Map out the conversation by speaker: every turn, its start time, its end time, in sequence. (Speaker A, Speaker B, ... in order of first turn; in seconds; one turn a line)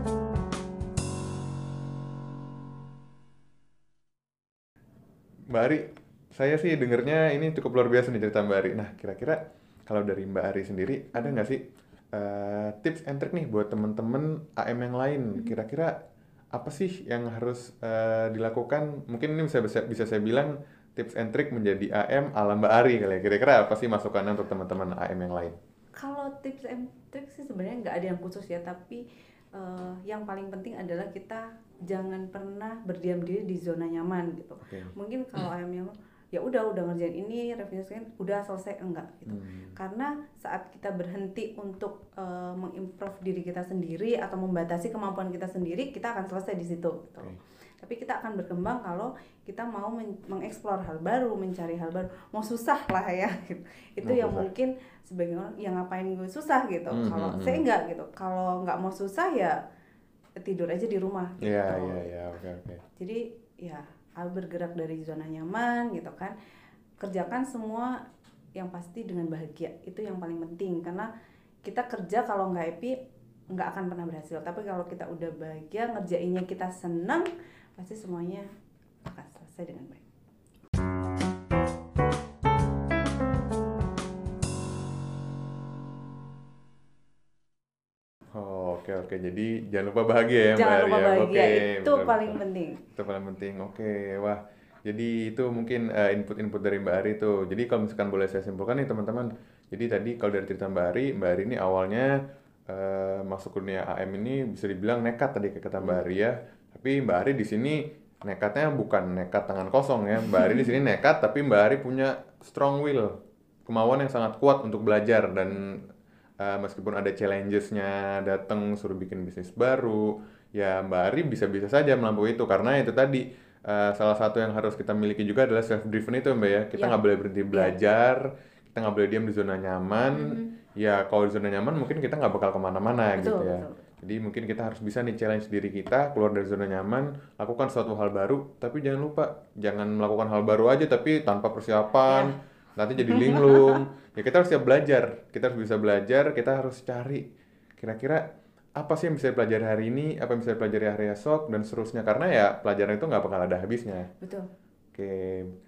Speaker A: 5.5-11.6
Speaker A: 12.1-15.9
Speaker A: 16.5-25.6
Speaker B: 26.0-29.0
Speaker B: 29.5-59.6
Speaker A: 39.3-39.8
Speaker A: 54.0-54.5
Speaker A: 56.9-57.6
Speaker B: 60.4-62.1
Speaker A: 61.4-62.8
Speaker B: 63.0-66.3
Speaker B: 67.0-67.9
Speaker B: 68.6-71.1
Speaker B: 71.6-73.0
Speaker B: 73.5-78.5
Speaker B: 79.0-80.0
Speaker A: 88.3-92.4
Speaker B: 90.5-92.8
Speaker A: 92.9-102.1
Speaker A: 102.7-113.1
Speaker B: 105.8-106.1
Speaker A: 113.7-115.8
Speaker A: 116.4-147.2
Speaker B: 126.7-127.0
Speaker B: 127.5-127.8
Speaker B: 130.1-130.5
Speaker B: 133.1-133.8
Speaker B: 143.0-143.8
Speaker A: 147.8-148.2
Speaker A: 148.8-154.1
Speaker B: 154.2-154.5
Speaker A: 154.9-155.5